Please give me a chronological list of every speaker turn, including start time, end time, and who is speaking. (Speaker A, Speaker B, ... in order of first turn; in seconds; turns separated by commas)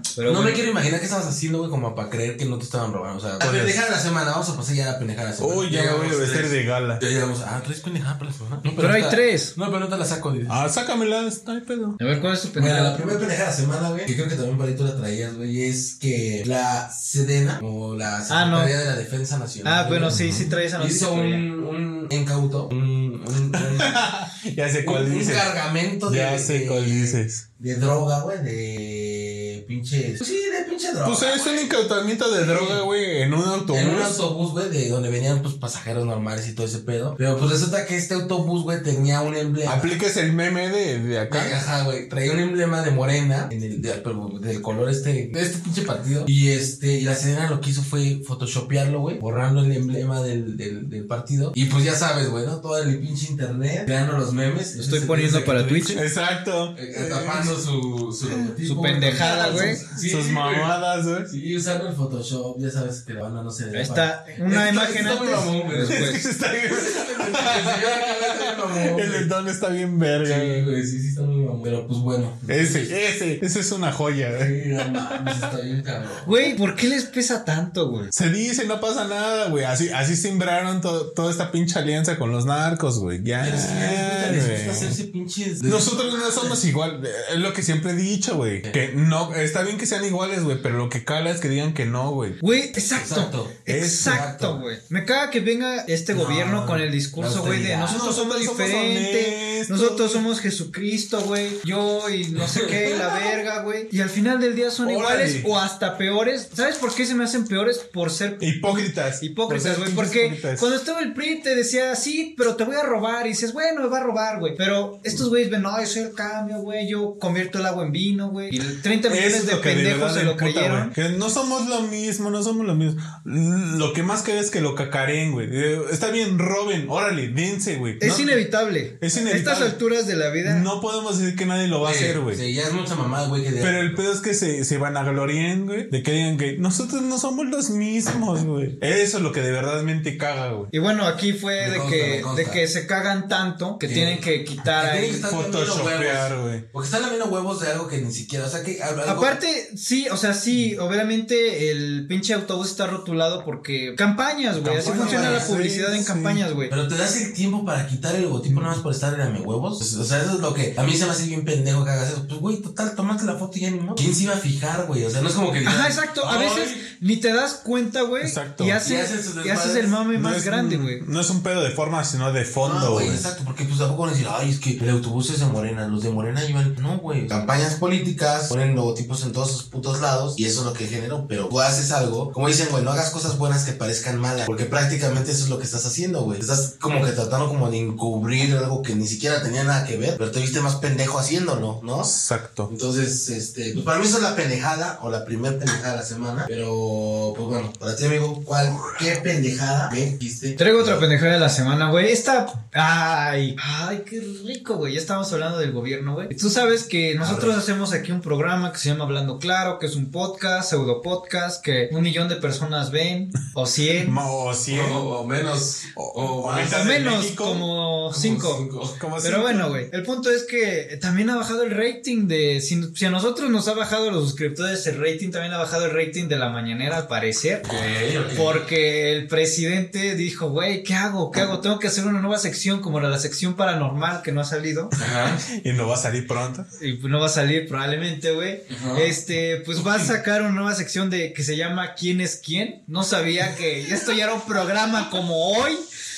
Speaker A: 0.1-0.6, Speaker B: 0.2-10.6, Speaker C: 3.4-3.8, Speaker C: 5.4-7.0, Speaker A: 8.8-9.5, Speaker C: 10.5-12.0, Speaker A: 12.0-13.2, Speaker B: 12.6-24.0, Speaker A: 18.3-18.7, Speaker A: 19.6-21.4, Speaker C: 20.1-20.5, Speaker C: 23.5-25.5, Speaker B: 24.8-31.7, Speaker C: 26.1-27.4, Speaker C: 31.0-34.1, Speaker B: 32.4-32.8, Speaker B: 33.7-39.9, Speaker C: 39.6-41.5, Speaker B: 41.3-56.0, Speaker A: 54.8-56.0, Speaker C: 55.9-57.5, Speaker B: 56.7-60.7, Speaker A: 58.6-59.8, Speaker C: 59.2-61.3, Speaker B: 61.3-69.3, Speaker A: 63.7-66.2, Speaker C: 65.8-70.7, Speaker B: 70.2-72.9, Speaker C: 72.5-75.5, Speaker B: 74.3-76.3, Speaker A: 76.2-78.1, Speaker C: 78.1-85.0, Speaker B: 83.4-86.6, Speaker C: 85.6-92.4, Speaker A: 92.4-120.9, Speaker B: 92.9-94.6, Speaker C: 93.7-94.2, Speaker B: 96.1-98.0, Speaker C: 97.9-100.2, Speaker B: 102.3-103.3, Speaker C: 104.8-105.5, Speaker C: 108.4-110.7, Speaker C: 119.1-128.4, Speaker A: 128.0-130.7, Speaker C: 129.0-129.8, Speaker C: 130.4-132.4, Speaker B: 131.8-134.0, Speaker C: 133.6-140.7, Speaker A: 140.7-145.2, Speaker B: 141.6-142.6, Speaker B: 143.8-149.4, Speaker C: 145.2-146.6, Speaker A: 149.0-156.7, Speaker C: 154.6-156.4, Speaker B: 154.9-155.5, Speaker B: 156.7-166.8, Speaker C: 158.5-158.8, Speaker A: 165.7-171.0, Speaker C: 168.2-168.8, Speaker B: 168.8-169.9, Speaker C: 170.1-173.2, Speaker B: 172.6-192.1, Speaker C: 192.0-192.7, Speaker B: 192.7-201.0, Speaker A: 200.6-214.2, Speaker B: 207.2-207.5, Speaker C: 214.0-215.1, Speaker B: 214.7-217.1, Speaker C: 215.9-217.7, Speaker A: 216.6-218.7, Speaker B: 218.1-219.0, Speaker C: 218.9-219.7, Speaker A: 219.2-234.9, Speaker B: 227.6-228.6, Speaker B: 234.9-235.4, Speaker C: 235.4-236.7, Speaker A: 236.8-245.8, Speaker B: 238.7-239.1